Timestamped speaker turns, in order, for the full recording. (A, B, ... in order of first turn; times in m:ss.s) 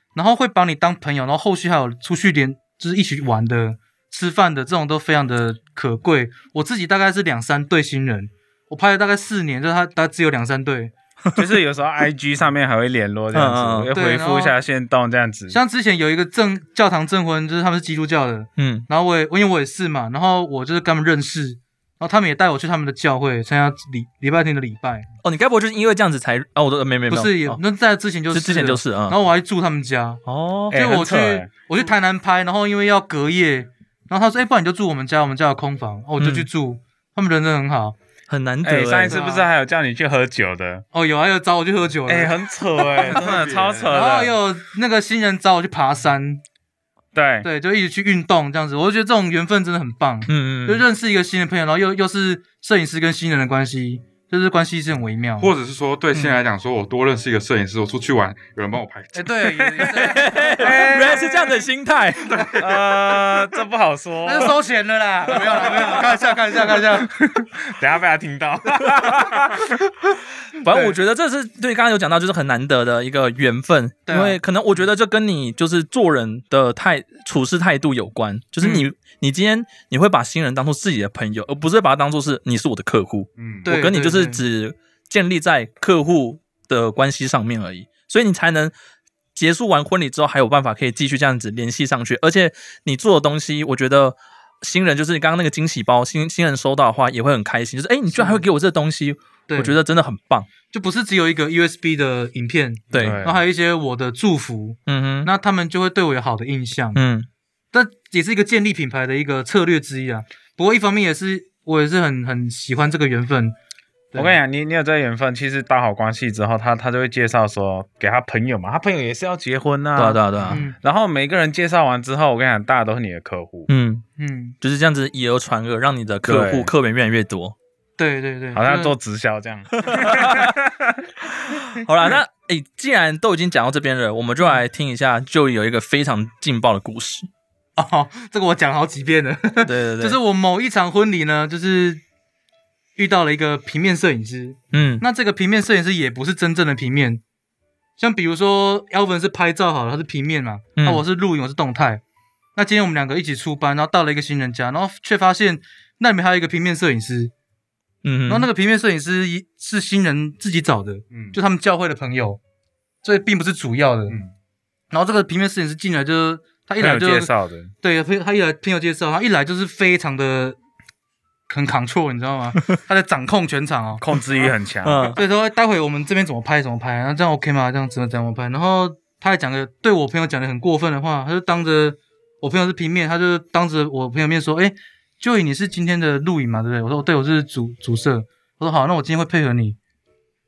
0:00.1-0:10.9 A
0:11.4-0:15.6 B
0:13.3-0:13.9 C
0:13.9-0:14.6 A
0:15.5-0:25.1 A
0:18.6-0:18.9 C
0:25.2-0:27.6 C
0:27.1-0:38.0 A
0:28.3-0:29.2 C
0:30.3-0:30.8 C
0:30.7-0:31.5 B
0:36.2-0:36.5 C
0:38.3-0:39.2 C
0:38.6-0:40.8 B
0:39.1-0:39.5 A
0:40.9-0:43.2 A
0:42.1-0:44.4 B
0:42.8-0:44.0 D
0:43.9-0:46.4 A
0:47.2-0:47.5 B
0:47.4-0:55.5 A
0:50.3-0:50.8 C
0:55.4-0:59.9 D
0:59.2-1:01.4 A
1:00.0-1:02.4 C
1:00.6-1:01.5 B
1:02.5-1:04.6 B
1:04.2-1:07.1 A
1:05.7-1:06.0 B
1:06.7-1:09.6 B
1:10.6-1:28.7 C
1:10.7-1:11.0 A
1:14.1-1:14.4 A
1:18.6-1:18.9 A
1:23.4-1:23.7 D
1:23.7-1:24.4 A
1:29.4-1:40.5 C
1:38.1-1:38.4 A
1:39.5-1:39.8 A
1:40.7-1:47.0 A
1:42.9-1:43.2 C
1:43.0-1:43.4 B
1:44.9-1:45.3 C
1:46.9-1:47.3 C
1:47.7-1:53.6 A
1:54.2-2:03.7 B
2:00.0-2:00.6 C
2:00.5-2:00.8 A
2:03.7-2:04.0 C
2:04.2-2:04.6 A
2:04.6-2:07.6 C
2:06.2-2:06.7 B
2:08.0-2:08.9 A
2:08.5-2:11.0 B
2:09.8-2:10.5 C
2:11.3-2:17.3 C
2:17.8-2:22.0 A
2:19.6-2:20.2 C
2:23.0-2:27.2 A
2:24.7-2:25.0 C
2:28.0-2:32.0 A
2:30.8-2:31.0 C
2:32.6-2:37.3 A
2:38.0-2:38.5 C
2:38.3-2:42.4 A
2:41.1-2:41.4 D
2:43.0-2:44.2 A
2:44.9-2:47.3 A
2:46.8-2:47.7 B
2:47.8-2:50.6 A
2:51.5-2:54.5 A
2:54.0-2:55.2 B
2:54.8-2:55.2 C
2:55.1-3:09.8 A